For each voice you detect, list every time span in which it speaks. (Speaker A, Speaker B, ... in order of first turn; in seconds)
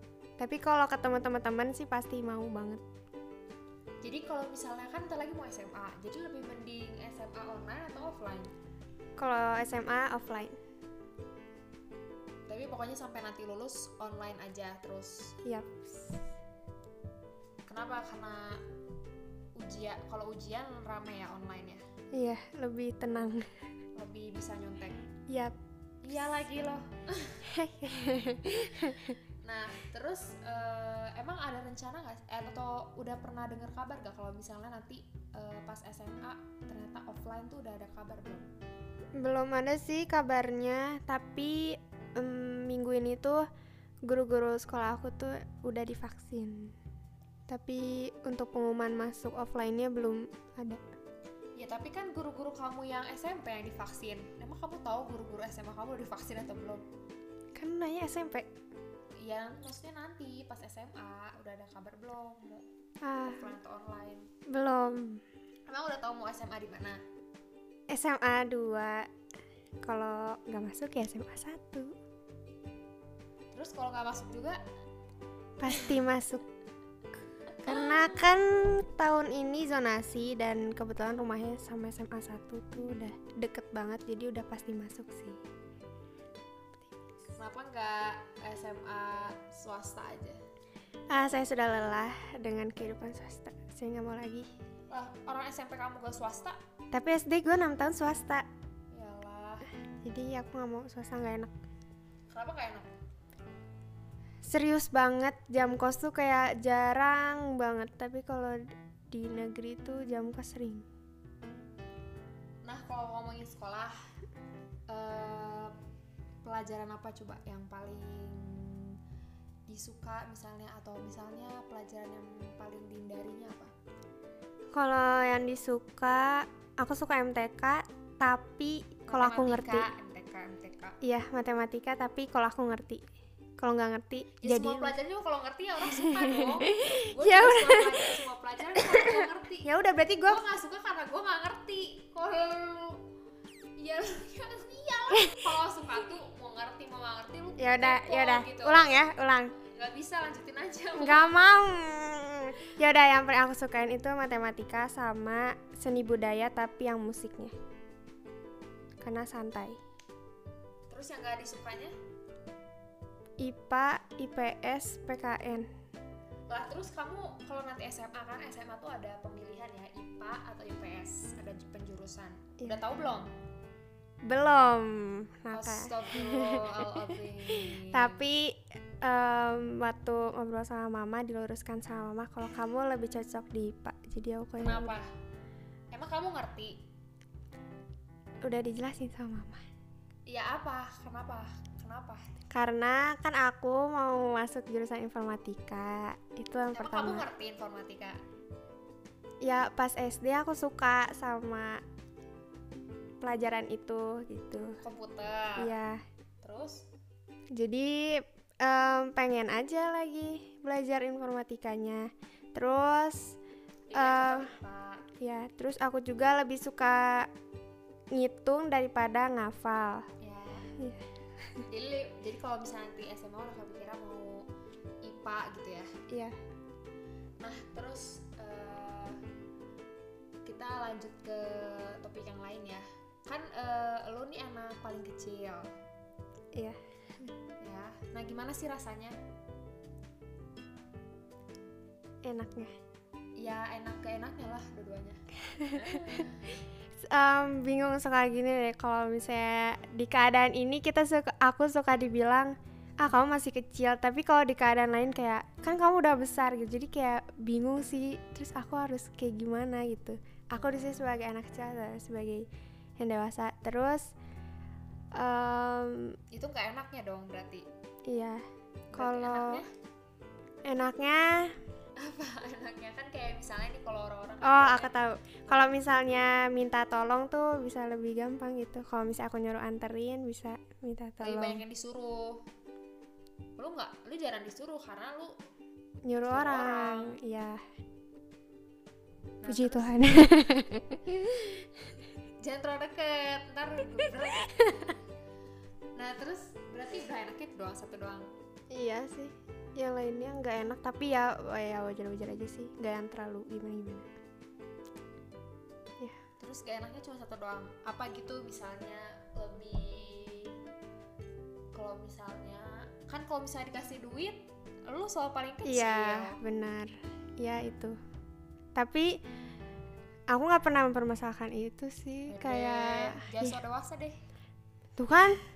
Speaker A: 0.4-2.8, 9.2-10.6, 15.4-16.1, 22.1-23.5, 25.3-25.6, 27.4-29.2, 39.2-43.5, 44.0-46.8, 47.5-50.8, 57.6-58.5, 63.0-63.5, 64.5-65.2, 67.9-69.1, 69.8-72.0, 75.6-76.5, 77.6-85.4, 91.1-94.5, 96.9-98.5, 100.0-101.5, 104.4-110.9, 124.7-129.9, 131.0-133.0, 133.6-134.9, 135.9-138.2, 138.8-140.4, 147.6-149.5, 151.0-157.6, 159.0-159.8, 163.4-165.7, 174.2-185.0, 188.4-189.6, 192.5-197.3, 199.4-201.8, 203.2-204.8, 205.6-206.0, 207.5-213.4, 213.9-214.5, 215.2-217.3, 218.1-220.1, 220.8-221.7, 226.1-226.4, 236.6-237.3, 242.2-242.7, 245.5-246.3, 247.0-262.5, 263.0-264.1, 265.1-266.2, 268.1-269.6, 270.6-271.6, 274.4-281.6, 286.1-287.6, 289.5-291.6, 294.4-294.8, 298.7-304.1, 315.6-318.0, 318.8-319.2, 320.3-323.6, 325.0-325.4
Speaker B: 4.0-8.5, 12.5-15.4, 17.7-18.6, 19.6-21.8, 23.1-23.4, 24.0-25.0, 26.0-27.5, 29.4-38.5, 51.6-56.9, 59.2-62.6, 63.2-64.3, 65.7-67.0, 73.5-74.6, 77.6-78.1, 87.4-90.4, 94.9-96.6, 98.9-99.7, 102.3-102.9, 112.6-114.0, 114.9-115.7, 116.4-119.0, 119.7-123.7, 129.1-131.0, 134.4-143.0, 143.8-151.4, 160.9-161.9, 166.5-173.3, 175.5-178.2, 184.6-185.1, 185.9-186.8, 190.3-192.2, 196.7-198.2, 204.8-205.7, 206.4-206.8, 213.9-215.0, 220.2-220.7, 221.7-224.5, 225.0-225.9, 227.4-229.2, 230.4-235.7, 237.6-239.2, 243.4-246.4, 266.3-267.7, 268.9-269.7, 272.0-274.9, 275.5-275.7, 281.2-282.4, 283.6-285.4, 286.2-287.2, 289.4-290.3, 292.4-295.0, 296.0-298.3, 306.4-310.6, 311.7-316.4, 322.3-324.2